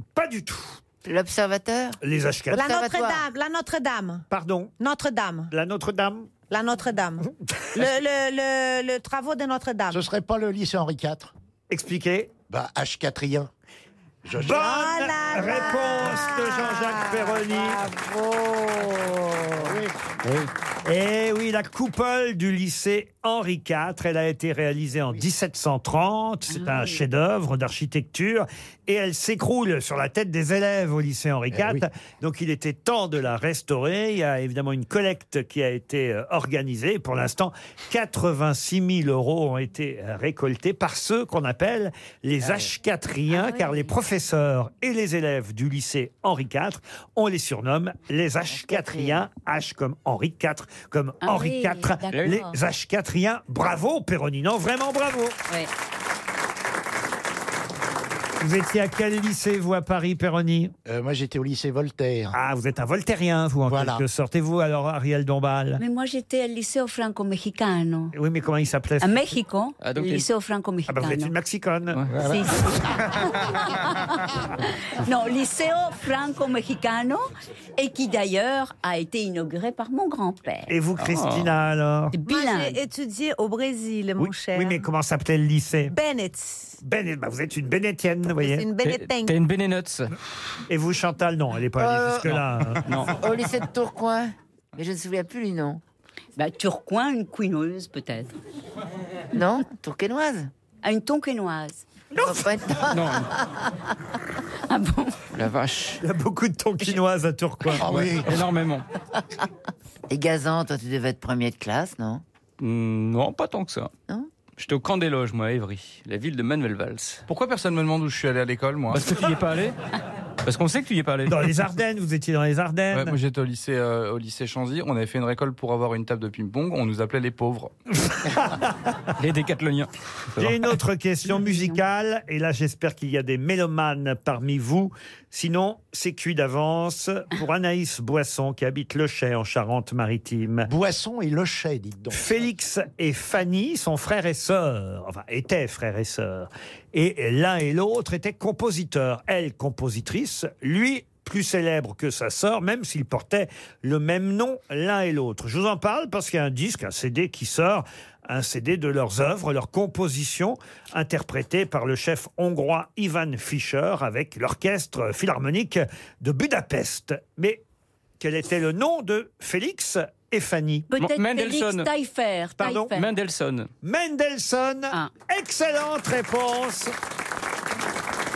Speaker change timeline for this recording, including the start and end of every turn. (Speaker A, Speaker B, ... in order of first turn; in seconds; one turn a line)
Speaker A: 0.1-0.8
Speaker B: 1.0-2.0
Speaker A: 2.0-2.6
Speaker C: 2.5-4.2
Speaker B: 2.5-3.2
Speaker A: 4.3-4.7
Speaker C: 4.8-5.5
Speaker A: 5.5-6.4
Speaker C: 6.5-10.0
Speaker D: 9.9-11.3
Speaker A: 11.7-12.3
Speaker D: 12.5-13.5
Speaker D: 14.2-14.9
Speaker A: 14.4-17.8
Speaker C: 14.5-19.8
Speaker D: 19.6-20.0
Speaker A: 20.9-55.4
Speaker E: 26.5-27.0
Speaker D: 31.5-31.9
Speaker E: 43.3-43.8
Speaker B: 48.5-49.2
Speaker E: 51.2-52.5
Speaker F: 52.1-52.4
Speaker A: 58.4-60.7
Speaker D: 60.9-62.4
Speaker A: 62.3-65.8
Speaker D: 63.7-64.0
Speaker E: 65.8-68.1
Speaker A: 68.1-69.3
Speaker E: 69.0-71.3
Speaker F: 69.8-70.3
Speaker A: 70.9-72.0
Speaker D: 72.1-72.9
Speaker E: 72.2-74.2
Speaker E: 75.0-77.3
Speaker E: 77.8-80.7
Speaker A: 80.7-82.2
Speaker F: 81.0-81.5
Speaker E: 82.1-82.8
Speaker C: 82.2-84.8
Speaker A: 84.2-86.0
Speaker C: 85.9-86.8
Speaker A: 86.8-88.7
Speaker C: 88.4-89.4
Speaker F: 88.8-90.1
Speaker A: 90.7-93.1
Speaker B: 91.8-92.4
Speaker F: 92.8-93.1
Speaker B: 93.0-95.8
Speaker E: 96.4-98.3
Speaker B: 99.3-100.5
Speaker E: 100.8-101.8
Speaker B: 102.2-103.5
Speaker F: 102.9-103.3
Speaker E: 104.7-105.2
Speaker F: 105.3-106.0
Speaker A: 106.0-108.2
Speaker D: 107.8-108.3
Speaker F: 108.0-108.8
Speaker B: 110.1-112.2
Speaker F: 112.6-113.9
Speaker F: 114.6-117.2
Speaker G: 117.3-119.1
Speaker F: 118.9-119.8
Speaker F: 120.5-121.5
Speaker A: 121.3-123.2
Speaker G: 122.9-127.7
Speaker A: 128.1-128.9
Speaker F: 129.2-130.6
Speaker A: 130.4-140.7
Speaker D: 140.7-142.4
Speaker A: 142.1-167.6
Speaker A: 168.2-170.9
Speaker E: 170.9-173.1
Speaker F: 171.0-171.9
Speaker A: 172.6-172.9
Speaker F: 172.9-173.7
Speaker A: 173.8-176.9